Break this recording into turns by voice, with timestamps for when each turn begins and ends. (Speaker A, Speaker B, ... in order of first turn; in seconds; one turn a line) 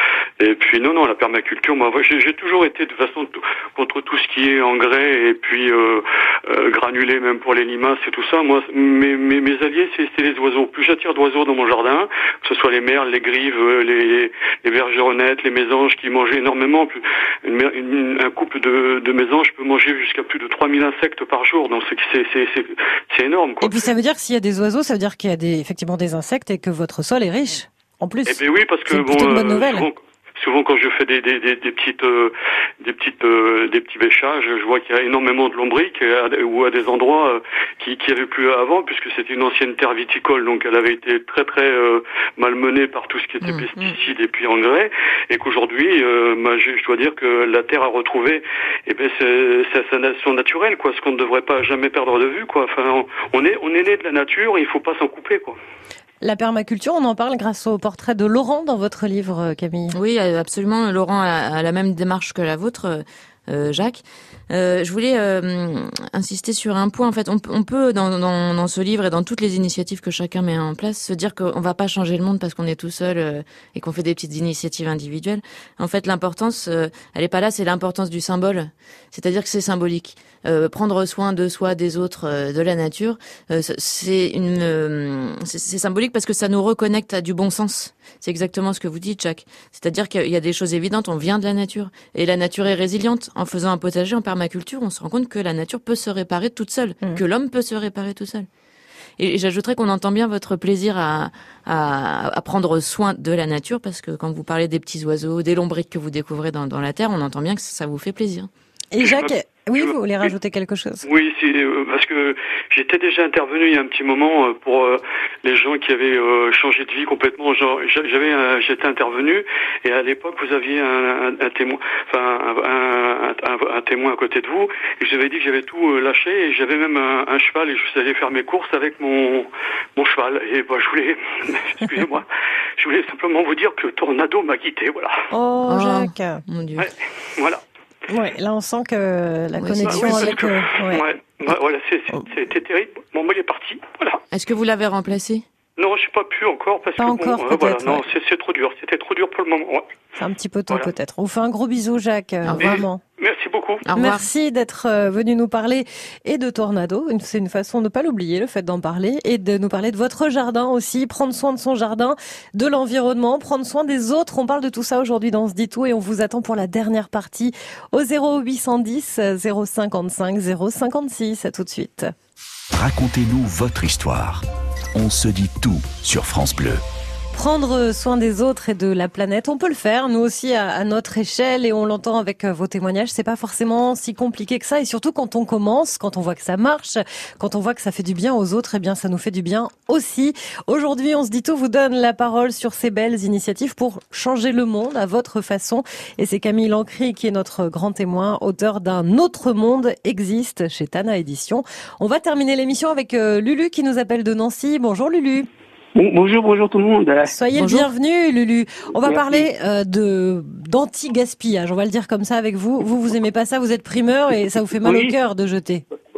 Speaker A: 0.4-23.8
Speaker B: 23.6-29.9
Speaker A: 28.3-55.6
Speaker C: 43.5-44.0
Speaker B: 56.2-60.0
Speaker C: 59.9-98.5
Speaker C: 99.2-108.5
Speaker B: 108.9-111.1
Speaker A: 109.0-109.9
Speaker A: 111.0-132.3
Speaker A: 132.8-135.2
Speaker B: 135.3-136.4
Speaker C: 135.7-136.9
Speaker A: 136.8-137.6
Speaker B: 138.1-141.0
Speaker C: 139.6-140.3
Speaker A: 139.8-144.2
Speaker C: 144.3-145.5
Speaker A: 145.8-149.9
Speaker B: 147.0-148.0
Speaker B: 150.2-153.0
Speaker C: 152.4-152.8
Speaker A: 152.6-153.9
Speaker C: 153.9-154.3
Speaker B: 153.9-172.1
Speaker D: 172.7-176.8
Speaker B: 177.3-205.5
Speaker E: 205.9-207.3
Speaker B: 207.3-215.8
Speaker C: 207.6-207.9
Speaker E: 209.0-209.4
Speaker E: 214.8-215.1